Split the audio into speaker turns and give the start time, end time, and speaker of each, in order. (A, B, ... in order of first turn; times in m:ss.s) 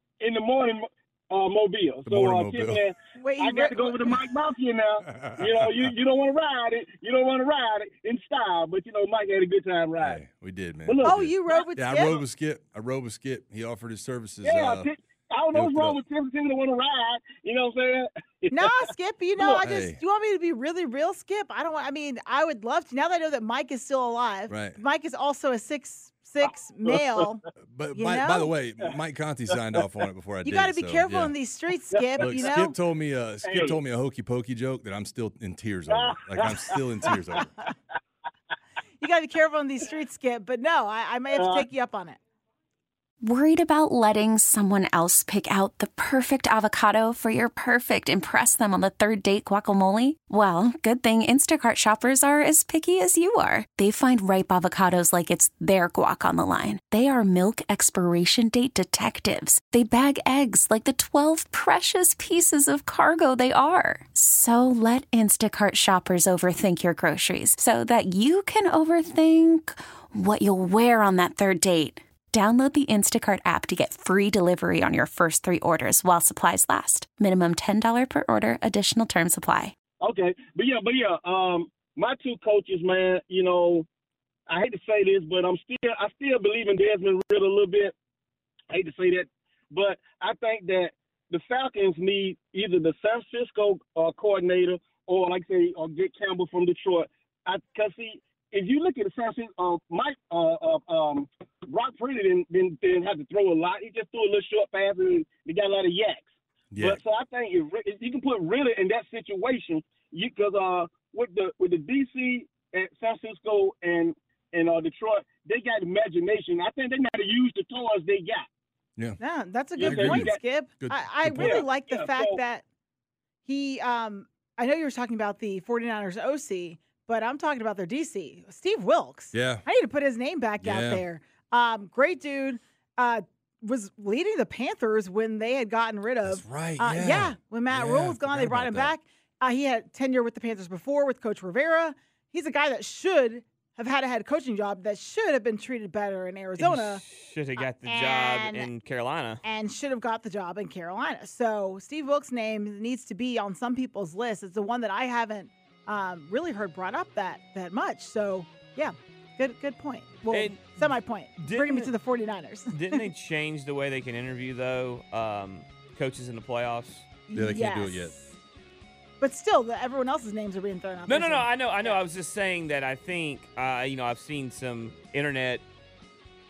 0:00.2-0:10.2 A
0:02.0-0:02.9 B
0:03.1-0:04.2 C
0:05.2-0:05.9 B
0:10.0-0:14.9 B
0:10.9-0:11.6 A
0:11.0-0:12.2 C
0:14.4-0:18.7 A
0:15.5-0:16.0 B
0:18.5-0:28.6 C
0:19.4-0:19.7 A
0:19.6-0:20.0 B
0:24.5-0:24.8 B
0:26.8-0:27.2 A
0:27.7-0:31.3 B
0:30.4-0:32.8 C
0:31.9-0:32.6 A
0:32.2-0:37.5 B
0:33.4-0:33.8 A
0:35.9-0:37.4 A
0:39.0-0:42.2 C
0:41.3-0:41.7 A
0:43.2-1:19.7 D
1:20.0-1:23.8 A
1:24.5-1:27.9 A
1:28.7-1:46.2 A
1:46.7-1:47.0 B
1:46.8-1:58.4 A
1:59.2-2:02.6 C
1:59.7-2:00.4 A
1:59.8-2:01.7 B
2:01.3-2:02.4 A
2:03.4-2:27.0 C
2:09.3-2:09.6 B
2:10.6-2:11.0 B
2:16.2-2:18.9 B
2:26.6-2:29.4 E
2:27.6-2:28.7 C
2:29.4-2:43.0 C
2:40.3-2:41.9 E
2:42.7-2:47.1 E
2:47.3-2:48.3 C
2:47.3-2:48.1 B
2:49.2-2:52.0 C
2:51.1-2:55.6 E